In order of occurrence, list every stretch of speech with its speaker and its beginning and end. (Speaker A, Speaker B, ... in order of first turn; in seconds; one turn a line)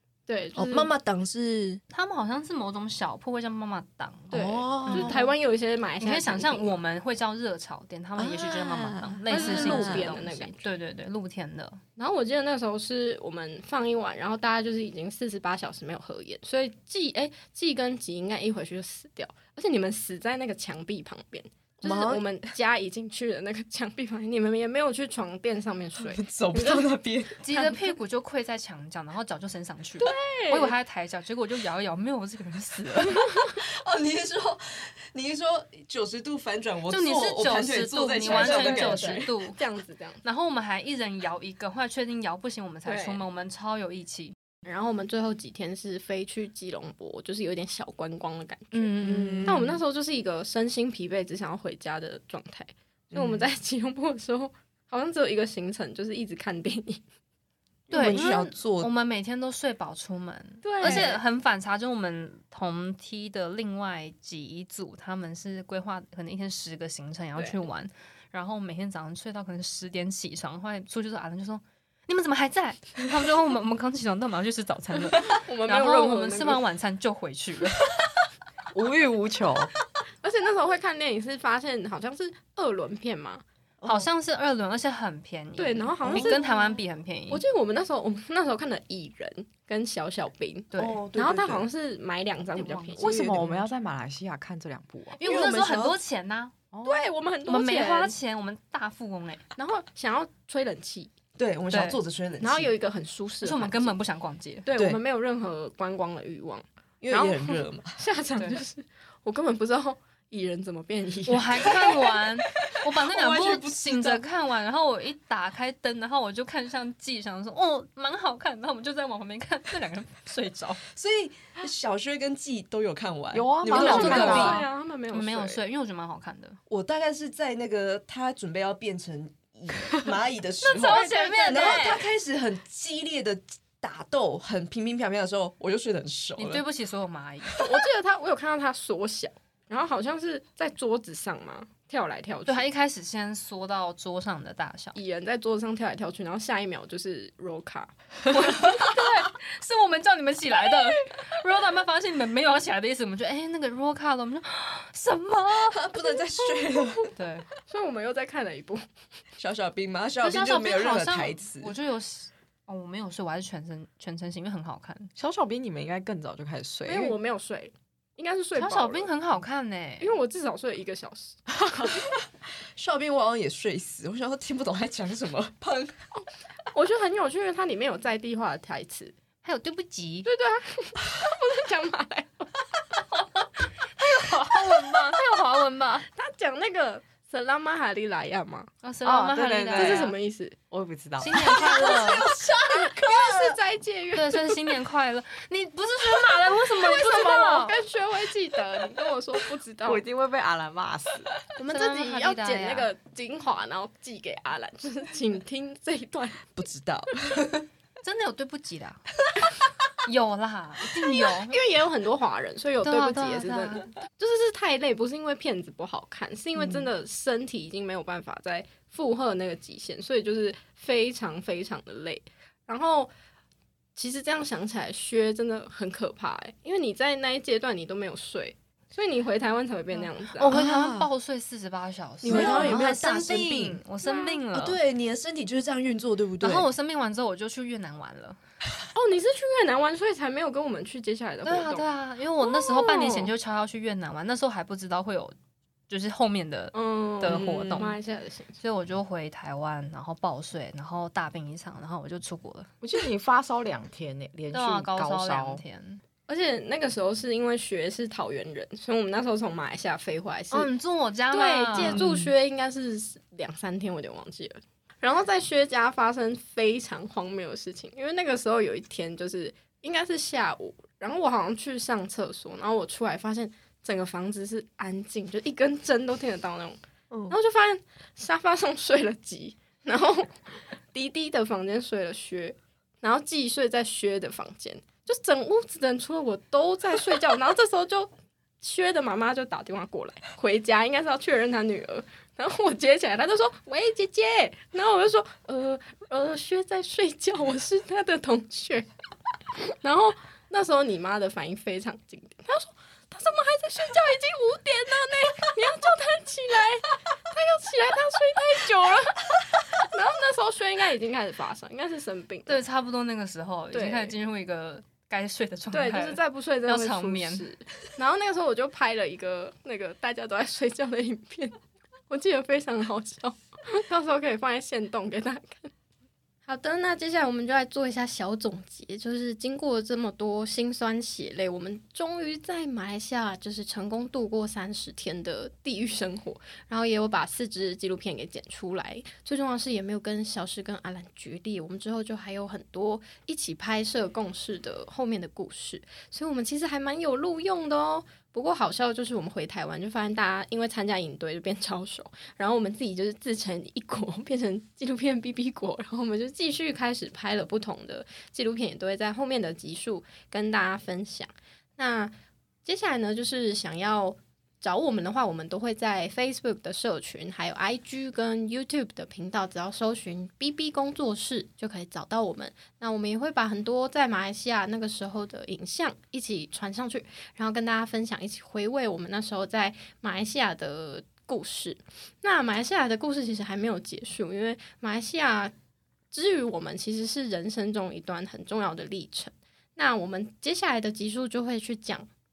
Speaker A: 0.3-0.9
Speaker B: 0.5-1.8
Speaker C: 1.9-5.3
Speaker B: 4.3-5.2
Speaker A: 4.3-6.7
Speaker C: 6.0-11.8
Speaker B: 8.2-10.2
Speaker A: 9.3-10.7
Speaker A: 12.0-26.9
Speaker B: 21.8-22.5
Speaker B: 26.0-27.4
Speaker C: 27.4-33.5
Speaker A: 30.0-30.8
Speaker B: 33.5-39.3
Speaker C: 36.9-39.6
Speaker A: 38.2-40.2
Speaker C: 40.2-44.3
Speaker A: 42.9-43.2
Speaker A: 44.6-57.0
Speaker D: 49.0-49.5
Speaker B: 49.0-49.8
Speaker B: 53.1-53.5
Speaker B: 57.9-58.9
Speaker C: 57.9-77.9
Speaker A: 60.6-61.2
Speaker B: 60.8-61.1
Speaker A: 75.1-76.6
Speaker D: 78.7-79.7
Speaker A: 80.2-83.4
Speaker C: 83.8-87.4
Speaker A: 85.6-93.2
Speaker C: 90.7-91.0
Speaker B: 90.8-91.7
Speaker C: 92.5-93.5
Speaker D: 93.0-95.2
Speaker B: 93.2-93.5
Speaker C: 95.2-96.5
Speaker B: 95.2-96.0
Speaker D: 96.7-97.1
Speaker A: 96.8-98.1
Speaker C: 97.5-99.5
Speaker A: 99.5-101.1
Speaker B: 101.4-102.7
Speaker C: 101.7-102.0
Speaker A: 102.4-103.9
Speaker C: 103.4-104.7
Speaker A: 104.6-112.1
Speaker B: 104.7-105.0
Speaker B: 107.0-108.0
Speaker C: 111.2-120.8
Speaker B: 112.7-114.2
Speaker B: 120.9-124.6
Speaker D: 123.3-124.6
Speaker C: 123.7-126.6
Speaker A: 123.7-125.6
Speaker B: 126.7-136.6
Speaker C: 130.6-132.1
Speaker A: 130.8-131.9
Speaker C: 136.4-137.7
Speaker A: 137.6-142.7
Speaker C: 142.4-145.0
Speaker A: 144.9-149.3
Speaker C: 148.3-155.8
Speaker B: 155.5-157.1
Speaker A: 156.7-157.1
Speaker C: 157.1-157.4
Speaker A: 157.7-158.8
Speaker B: 159.4-161.7
Speaker C: 160.2-165.1
Speaker D: 165.2-167.2
Speaker A: 166.8-169.1
Speaker C: 168.5-170.2
Speaker A: 170.0-172.0
Speaker B: 172.7-176.0
Speaker A: 176.7-179.1
Speaker C: 179.4-180.3
Speaker A: 180.2-182.5
Speaker C: 184.0-186.1
Speaker A: 186.1-188.7
Speaker C: 188.8-190.2
Speaker D: 189.0-190.1
Speaker A: 189.7-190.6
Speaker D: 190.7-191.5
Speaker C: 191.2-192.3
Speaker A: 191.4-194.7
Speaker B: 191.6-193.6
Speaker C: 194.1-197.8
Speaker A: 196.6-200.0
Speaker D: 199.8-201.3
Speaker A: 201.6-206.5
Speaker C: 201.7-202.9
Speaker B: 206.6-207.7
Speaker C: 208.0-209.0
Speaker C: 210.0-211.6
Speaker A: 211.1-223.1
Speaker C: 212.8-213.9
Speaker A: 223.9-230.6
Speaker C: 229.9-234.8
Speaker B: 230.5-231.1
Speaker B: 232.2-233.8
Speaker A: 232.2-232.8
Speaker A: 234.0-234.4
Speaker B: 234.5-236.7
Speaker C: 236.4-238.4
Speaker A: 238.9-241.9
Speaker C: 241.4-245.3
Speaker A: 242.4-243.3
Speaker C: 245.9-248.0
Speaker A: 246.7-248.6
Speaker B: 247.3-247.8
Speaker C: 248.6-252.7
Speaker D: 252.8-255.6
Speaker C: 254.5-256.0
Speaker A: 256.3-260.7
Speaker C: 260.5-262.1
Speaker A: 261.3-276.8
Speaker B: 261.8-262.3
Speaker A: 277.3-298.9
Speaker A: 299.6-312.6
Speaker C: 312.4-317.5
Speaker A: 313.7-314.1
Speaker A: 315.7-321.6
Speaker A: 322.1-325.7
Speaker A: 326.4-362.1
Speaker A: 362.6-385.5
Speaker A: 386.1-392.1